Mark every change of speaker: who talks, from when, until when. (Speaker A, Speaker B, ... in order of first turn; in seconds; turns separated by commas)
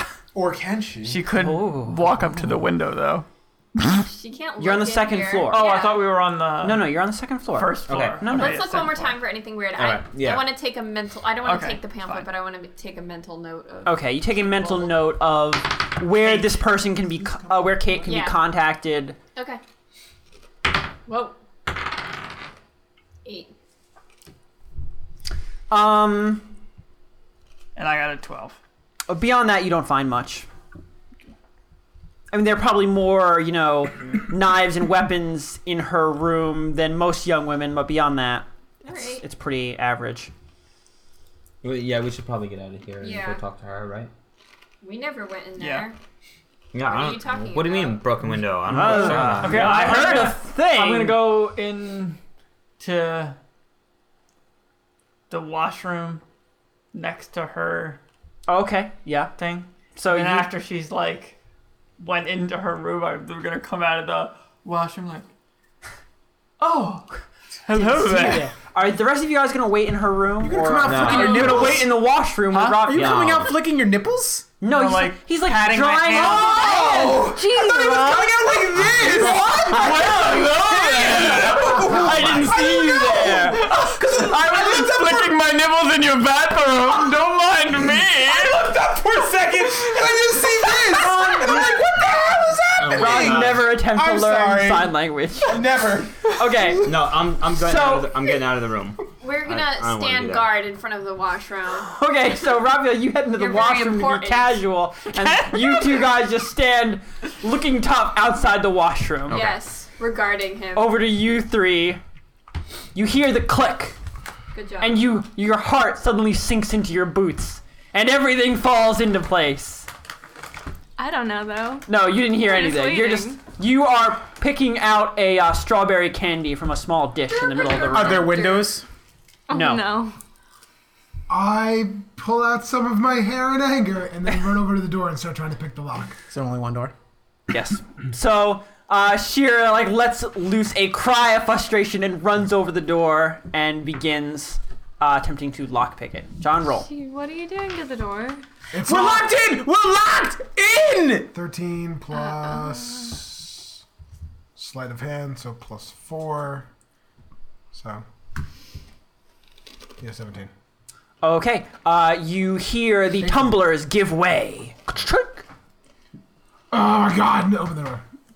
Speaker A: 0.3-1.2, Speaker B: 1.0-4.0, Speaker C: 1.3-2.6, Speaker D: 4.0-6.1, Speaker C: 4.6-5.7, Speaker B: 5.5-6.9, Speaker C: 6.6-8.6, Speaker B: 7.5-9.2, Speaker E: 7.9-8.3, Speaker D: 8.3-14.5, Speaker E: 9.7-10.5, Speaker B: 11.4-12.3, Speaker C: 13.8-19.2, Speaker B: 16.2-16.6, Speaker F: 17.6-18.0, Speaker D: 18.0-18.4, Speaker D: 19.3-19.6, Speaker D: 21.1-21.4, Speaker D: 23.2-23.5, Speaker C: 25.7-26.5, Speaker B: 27.8-28.6, Speaker C: 29.1-30.5, Speaker C: 32.3-40.3, Speaker D: 38.8-39.2, Speaker E: 41.6-44.1, Speaker D: 43.0-43.4, Speaker D: 44.8-46.0, Speaker B: 45.6-45.9, Speaker E: 46.7-50.3, Speaker D: 46.8-48.3, Speaker C: 48.6-51.2, Speaker B: 48.8-52.2, Speaker B: 52.8-53.4, Speaker B: 55.3-56.2, Speaker B: 56.9-58.0, Speaker C: 58.5-59.3, Speaker B: 59.4-61.3, Speaker C: 60.0-60.5, Speaker B: 62.0-65.3, Speaker B: 66.6-67.1, Speaker B: 67.7-68.5, Speaker C: 67.7-73.2, Speaker A: 70.4-71.9, Speaker E: 70.8-71.8, Speaker A: 72.6-74.5, Speaker E: 72.9-73.5, Speaker C: 74.6-76.9, Speaker B: 74.6-76.8, Speaker A: 76.2-85.5, Speaker G: 76.4-78.6, Speaker G: 79.2-79.5, Speaker C: 79.2-80.1, Speaker B: 79.6-88.7, Speaker C: 81.7-83.7, Speaker A: 86.6-96.9, Speaker C: 91.0-91.6, Speaker E: 92.8-93.7, Speaker C: 92.9-95.6, Speaker C: 96.2-96.9, Speaker E: 96.8-100.5, Speaker C: 97.5-98.1, Speaker D: 99.2-101.9, Speaker C: 101.9-109.5, Speaker D: 103.3-104.6, Speaker B: 105.1-106.0, Speaker E: 109.3-109.6, Speaker D: 109.3-111.0, Speaker C: 110.7-112.0, Speaker C: 112.9-114.0, Speaker D: 114.5-115.1, Speaker C: 114.8-119.9, Speaker G: 121.0-123.4, Speaker C: 121.9-128.4, Speaker D: 127.3-128.7, Speaker A: 127.9-128.8, Speaker G: 129.5-130.1, Speaker C: 129.5-129.9, Speaker F: 131.3-136.2, Speaker A: 136.3-136.9, Speaker C: 137.5-146.8, Speaker G: 146.8-148.4, Speaker F: 148.7-149.2, Speaker A: 148.8-151.3, Speaker F: 151.3-153.8, Speaker G: 152.1-153.1, Speaker F: 154.6-156.7, Speaker F: 157.7-158.0, Speaker F: 160.0-160.5, Speaker C: 161.2-165.4, Speaker F: 166.7-168.0